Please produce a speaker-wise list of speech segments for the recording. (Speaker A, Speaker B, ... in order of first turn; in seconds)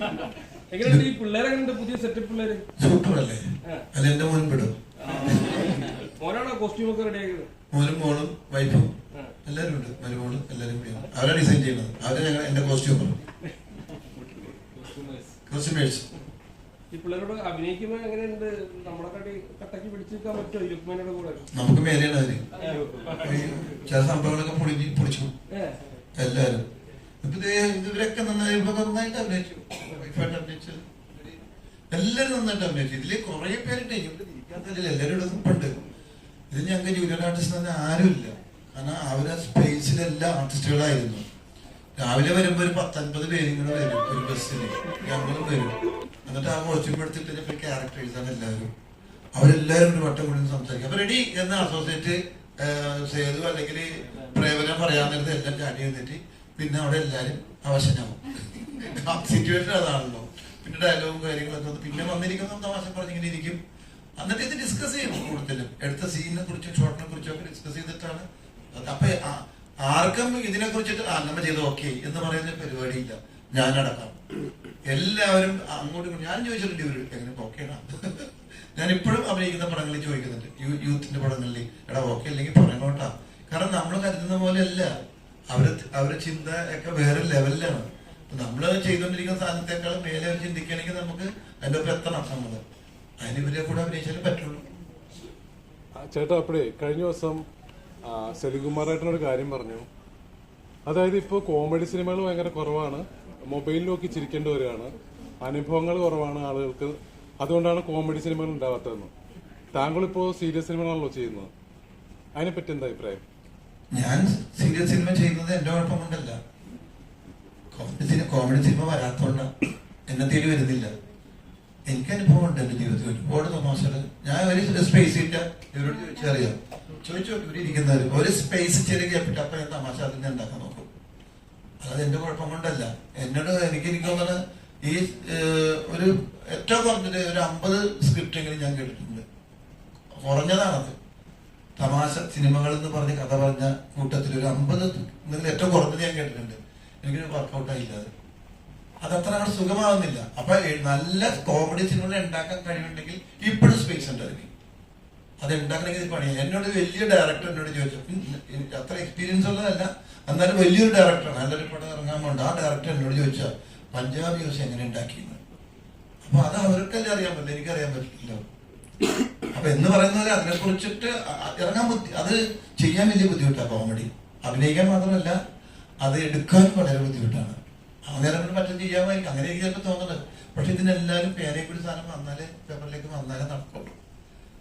Speaker A: 0.7-2.7, 5.0-7.5, 14.2-15.2, 16.9-21.5, 22.6-23.4, 25.5-25.8
Speaker B: 2.8-4.8, 5.3-5.7, 7.7-8.9, 9.4-13.2, 15.5-16.1, 21.5-22.5, 23.2-25.3, 26.2-26.6, 27.2-31.3, 31.9-35.7, 36.5-41.2, 42.0-45.8, 46.3-48.7, 49.4-63.6, 64.2-74.2, 74.9-84.9, 85.5-92.6, 93.2-94.7, 113.9-116.4, 117.7-119.5, 120.1-120.9, 121.9-130.9, 131.8-139.2, 140.2-140.9, 141.8-148.1, 149.0-154.5, 155.4-165.4, 166.2-168.4, 169.5-175.4, 176.0-177.6, 178.1-184.0
Speaker C: 96.0-97.4, 98.1-99.9, 100.9-109.1, 109.7-111.5, 112.4-113.2